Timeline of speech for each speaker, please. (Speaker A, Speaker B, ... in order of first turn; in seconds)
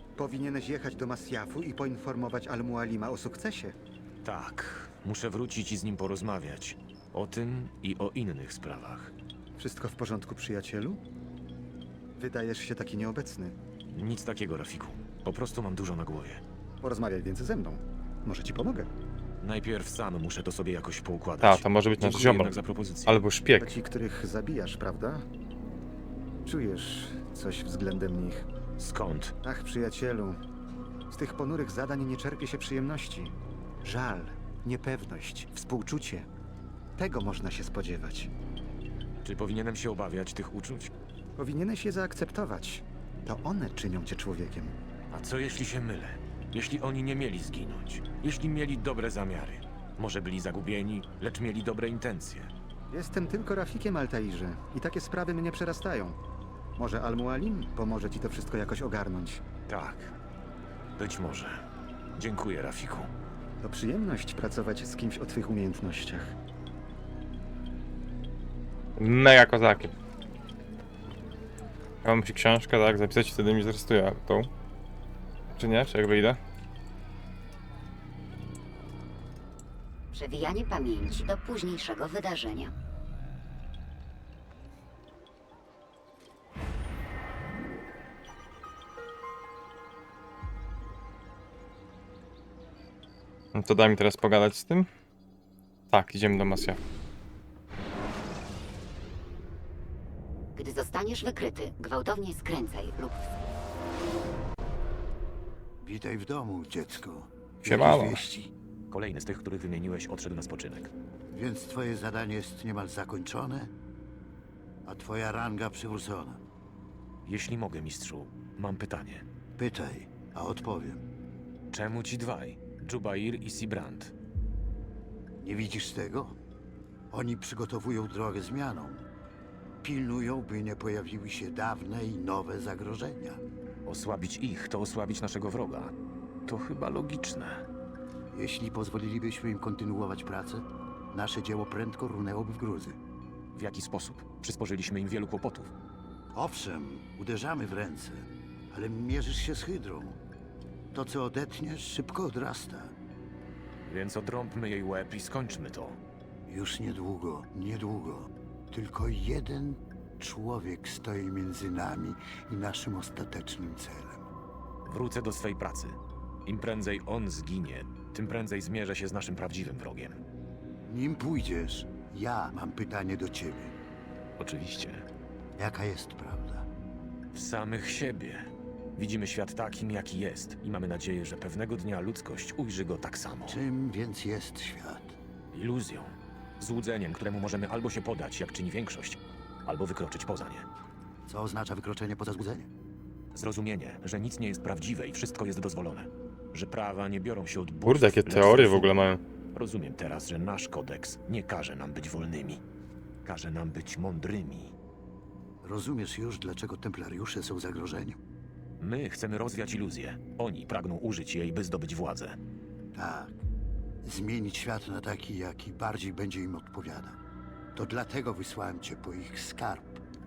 Speaker A: 0.2-3.8, 9.6-11.0, 12.2-13.6, 16.8-18.9, 23.6-25.2, 26.4-28.5, 29.4-30.4, 31.1-36.3, 37.0-38.3, 41.4-44.8, 52.9-56.2, 56.8-59.4, 63.6-66.3
Speaker B: 4.2-9.1, 13.9-16.4, 19.4-23.2, 28.8-29.3, 39.2-40.9, 45.1-52.5, 59.7-60.1, 61.0-63.1, 108.9-110.9, 117.2-119.2, 121.7-124.1, 133.8-137.6, 143.5-145.7, 153.8-156.0, 164.8-170.2, 174.4-175.1, 177.3-183.6, 185.5-190.7, 193.3-198.9, 199.5-202.6, 203.2-204.7, 208.8-212.4
Speaker C: 21.4-22.5, 23.1-23.8, 69.0-69.9, 72.0-74.5, 75.5-76.4, 93.5-94.9, 95.9-96.8, 107.6-108.2, 197.8-199.2
Speaker D: 80.1-82.7, 100.5-103.5
Speaker E: 105.8-108.5, 111.3-113.7, 114.8-116.4, 119.6-121.0, 125.4-126.3, 127.1-129.1, 129.8-133.4, 138.3-143.0, 146.3-150.2, 150.9-152.9, 156.5-164.3, 170.9-173.7, 175.6-176.7, 183.5-185.2, 191.3-192.7, 205.6-208.2, 212.9-213.4, 214.0-217.2, 217.7-220.0